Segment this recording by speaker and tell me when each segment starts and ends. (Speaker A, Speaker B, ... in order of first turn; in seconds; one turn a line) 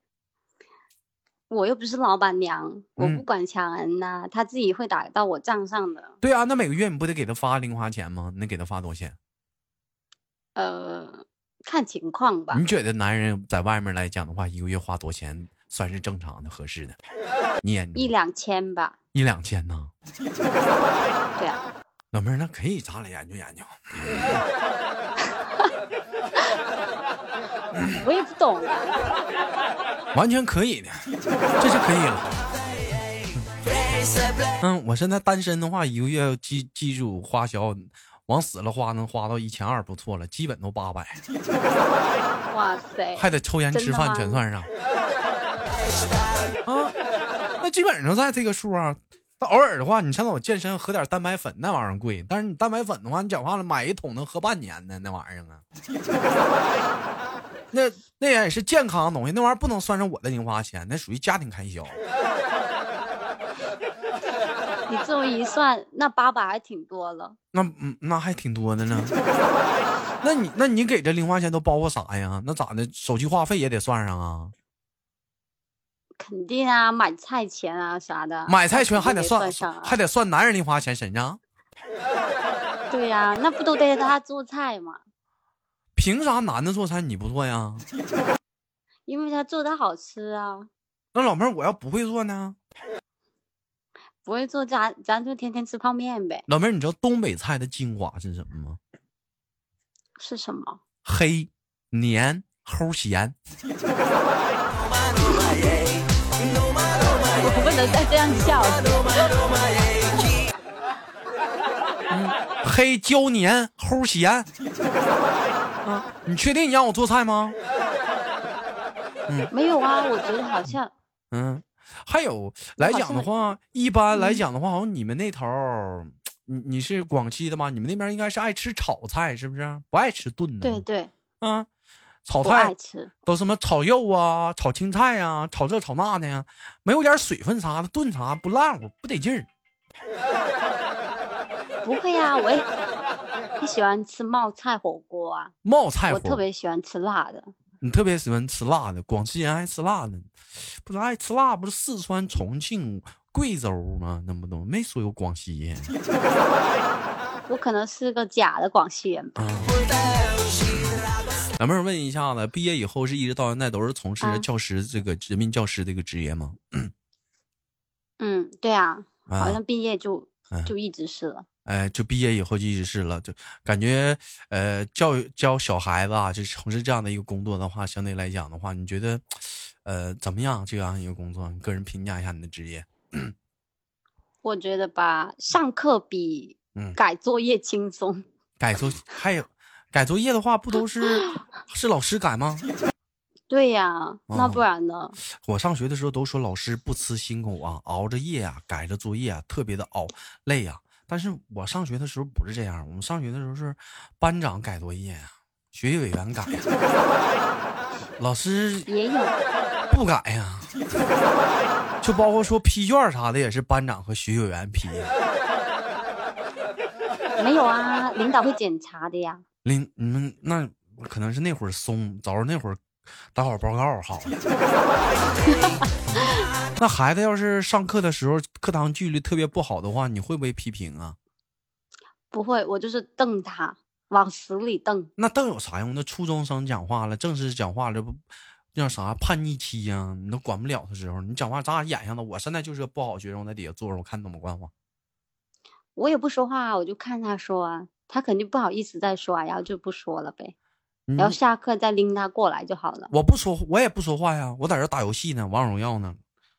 Speaker A: 1.5-6.2
Speaker B: 3.0-3.2
Speaker B: 6.2-9.2
Speaker A: 10.6-12.6
Speaker B: 12.5-17.0
Speaker B: 17.6-18.1
Speaker A: 17.9-19.0
Speaker B: 19.1-19.9
Speaker A: 21.4-21.6
Speaker B: 22.1-24.4
Speaker A: 28.0-29.0
Speaker B: 30.1-31.0
Speaker B: 31.6-32.5
Speaker B: 34.6-41.2
Speaker A: 42.5-44.4
Speaker B: 43.2-44.7
Speaker B: 46.7-46.9
Speaker B: 47.6-55.6
Speaker B: 57.7-62.0
Speaker A: 64.9-67.4
Speaker B: 67.5-69.2
Speaker B: 70.2-74.5
Speaker A: 76.2-80.0
Speaker B: 78.5-81.4
Speaker A: 82.9-85.0
Speaker B: 86.0-87.8
Speaker A: 89.1-90.7
Speaker B: 91.1-92.6
Speaker A: 94.2-96.5
Speaker B: 96.5-98.8
Speaker A: 100.2-100.8
Speaker B: 101.0-103.3
Speaker A: 105.2-105.7
Speaker A: 107.2-109.5
Speaker B: 112.1-114.5
Speaker B: 115.8-117.6
Speaker A: 119.5-120.9
Speaker B: 121.3-130.8
Speaker A: 122.8-123.4
Speaker A: 124.1-124.4
Speaker A: 130.6-131.1
Speaker B: 131.4-131.7
Speaker B: 132.3-132.7
Speaker A: 132.4-133.1
Speaker B: 133.3-139.5
Speaker A: 141.8-142.7
Speaker A: 143.6-145.5
Speaker B: 145.6-146.4
Speaker A: 146.1-147.5
Speaker B: 147.8-150.3
Speaker B: 150.8-155.9
Speaker A: 157.5-159.5
Speaker B: 159.4-159.8
Speaker B: 160.6-161.0
Speaker B: 161.6-166.9
Speaker A: 164.2-164.5
Speaker A: 168.2-171.4
Speaker B: 169.3-169.6
Speaker B: 171.7-183.3
Speaker A: 184.4-188.2
Speaker B: 188.6-192.7
Speaker A: 193.5-195.2
Speaker B: 194.3-194.6
Speaker B: 195.3-206.7
Speaker B: 208.2-208.9
Speaker A: 208.9-209.4
Speaker B: 209.9-210.7
Speaker B: 212.0-215.1
Speaker A: 217.4-219.4
Speaker B: 219.6-222.8
Speaker B: 223.3-224.4
Speaker A: 225.4-225.8
Speaker B: 226.8-231.2
Speaker A: 232.3-235.1
Speaker B: 235.2-238.2
Speaker B: 238.8-244.7
Speaker A: 246.0-250.5
Speaker B: 251.1-251.4
Speaker A: 251.2-253.1
Speaker B: 253.1-256.2